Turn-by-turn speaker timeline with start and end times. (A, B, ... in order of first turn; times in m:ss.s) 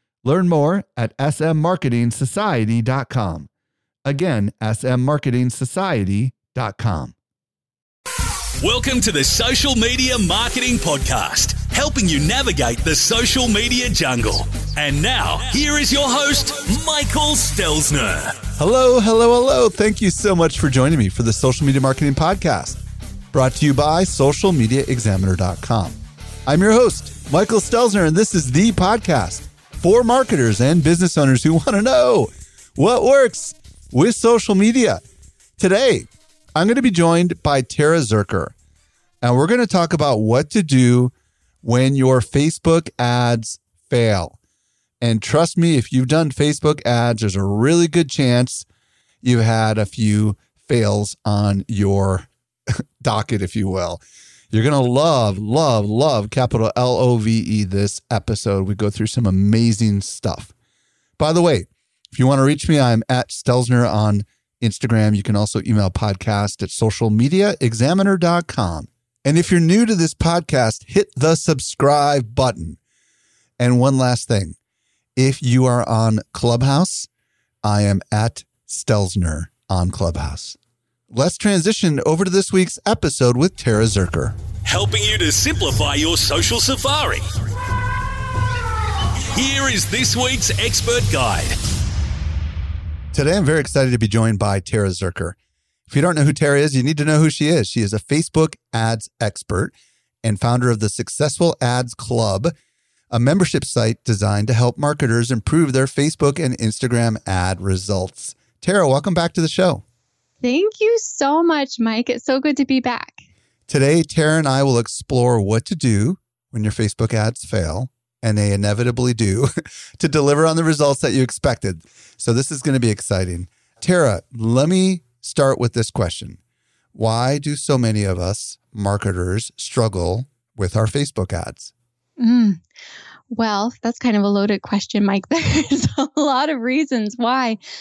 0:00.2-0:03.5 A
0:04.1-0:07.1 A
0:08.6-0:18.4 B
0:18.6-0:22.8 A
0:23.3-0:35.0 A
0:35.6-0:38.5 A
0:39.2-0:44.4 A
0:45.0-0:48.7 A
0:49.2-1:00.5 A
1:01.2-1:12.8 A
1:13.6-1:14.6 A
1:15.2-1:17.1 A
1:17.6-1:20.6 A
1:21.1-1:24.4 A
1:24.7-1:27.2 B
1:29.3-1:31.6 B
1:33.1-1:35.4 A
1:35.9-1:42.5 A
1:43.1-1:49.8 A
1:50.4-1:53.2 C
1:53.7-2:06.4 A
2:06.9-2:11.7 A
2:12.2-2:12.6 C
2:13.3-2:17.6 C